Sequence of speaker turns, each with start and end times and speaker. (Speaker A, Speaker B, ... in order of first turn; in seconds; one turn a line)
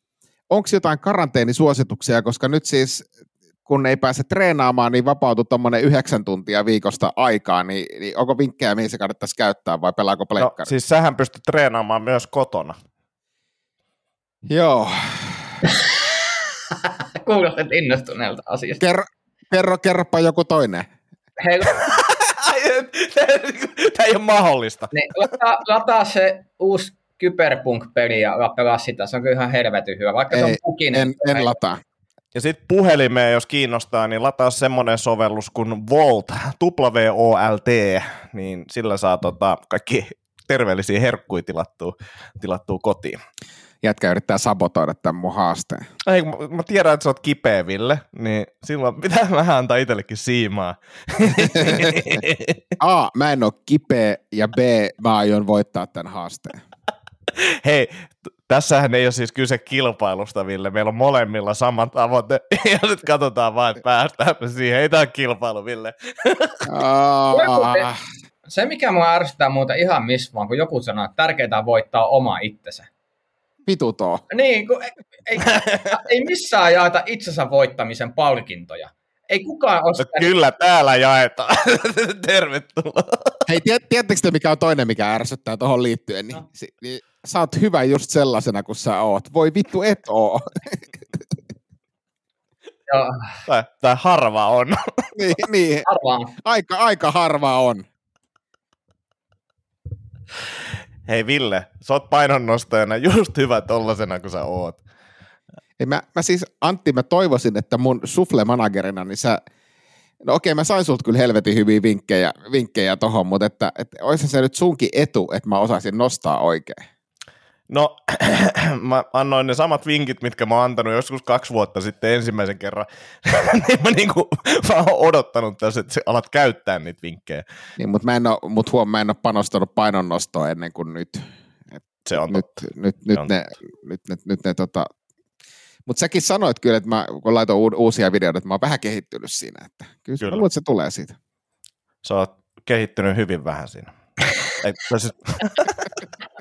Speaker A: 0.5-3.1
Speaker A: 3.6-10.7
Speaker B: 10.4-12.8
Speaker A: 14.5-15.6
Speaker C: 16.8-18.8
Speaker A: 18.8-20.9
Speaker C: 21.4-21.7
Speaker B: 21.7-24.9
Speaker C: 24.9-31.5
Speaker A: 30.3-31.8
Speaker B: 32.3-43.2
Speaker A: 43.8-45.9
Speaker B: 46.0-52.6
Speaker A: 51.3-52.2
Speaker A: 52.8-56.6
Speaker B: 57.4-66.7
Speaker A: 66.6-68.0
Speaker C: 67.3-67.9
Speaker C: 68.5-72.9
Speaker A: 73.7-74.2
Speaker C: 74.3-80.3
Speaker B: 75.5-75.9
Speaker B: 80.0-83.4
Speaker A: 83.5-90.9
Speaker C: 92.9-93.4
Speaker B: 93.5-94.8
Speaker A: 95.2-95.8
Speaker C: 95.8-96.3
Speaker A: 96.4-97.8
Speaker B: 101.0-104.8
Speaker A: 105.8-109.4
Speaker A: 110.2-116.8
Speaker B: 117.7-127.4
Speaker A: 127.8-131.2
Speaker B: 132.1-132.6
Speaker A: 132.3-134.9
Speaker A: 135.9-141.1
Speaker B: 142.0-143.9
Speaker B: 144.5-145.8